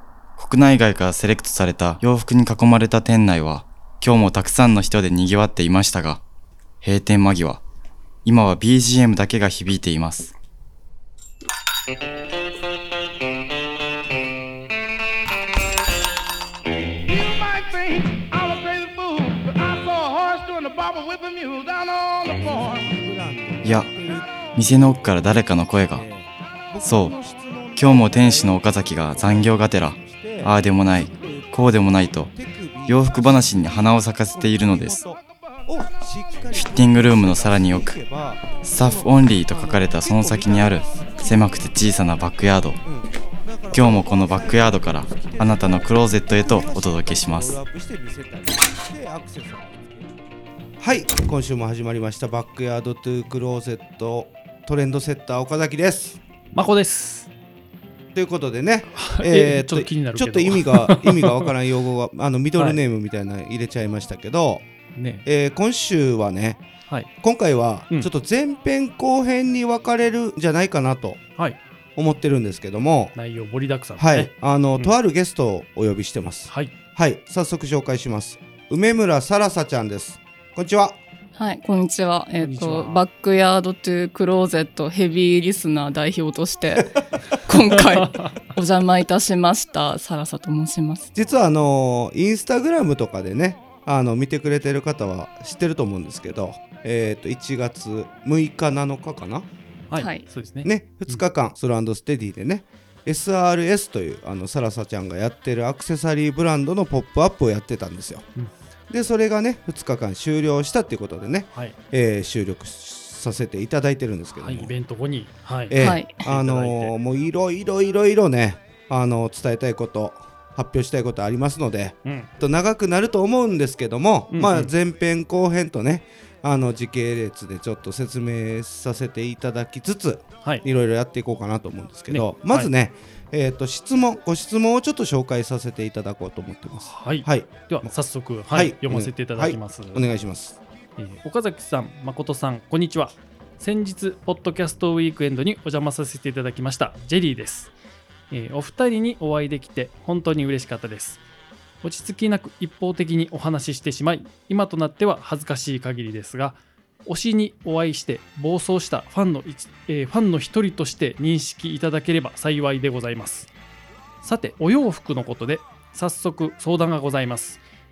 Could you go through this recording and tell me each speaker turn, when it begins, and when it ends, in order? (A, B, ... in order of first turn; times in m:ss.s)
0:00.4-0:06.2 A
0:06.8-0:07.6 A
0:08.2-0:10.3 A
0:17.4-0:22.3 B
0:22.3-0:25.0 C
0:24.5-0:26.0 A
0:25.9-0:41.4 C
0:26.8-0:27.1 A
0:27.8-0:32.3 A
0:32.9-0:35.0 A
0:36.5-0:37.9 A
0:38.6-0:42.8 A
0:42.8-0:50.1 C
0:43.7-0:47.6 A
0:50.8-0:56.2 C
0:56.5-0:57.3 D
0:58.1-1:04.6 C
0:58.9-1:01.5 D
1:02.6-1:02.8 D
1:05.0-1:05.2 D
1:05.2-1:06.6 C
1:07.2-1:11.2 C
1:12.0-1:13.1 C
1:13.1-1:15.0 D
1:14.0-1:21.0 C
1:21.4-1:31.1 E
1:22.4-1:23.0 D
1:28.0-1:28.3 D
1:31.1-1:39.5 C
1:39.9-1:41.2 D
1:40.0-1:40.2 E
1:40.6-1:48.2 C
1:48.9-1:54.7 C
1:54.4-1:56.9 D
1:55.7-2:17.9 C
1:55.8-1:56.2 E
2:02.0-2:02.3 D
2:04.3-2:04.7 D
2:12.1-2:12.7 D
2:16.9-2:20.1 D
2:18.5-2:20.6 C
2:21.0-2:27.7 D
2:28.3-2:31.2 D
2:31.8-2:43.5 D
2:44.2-2:47.6 D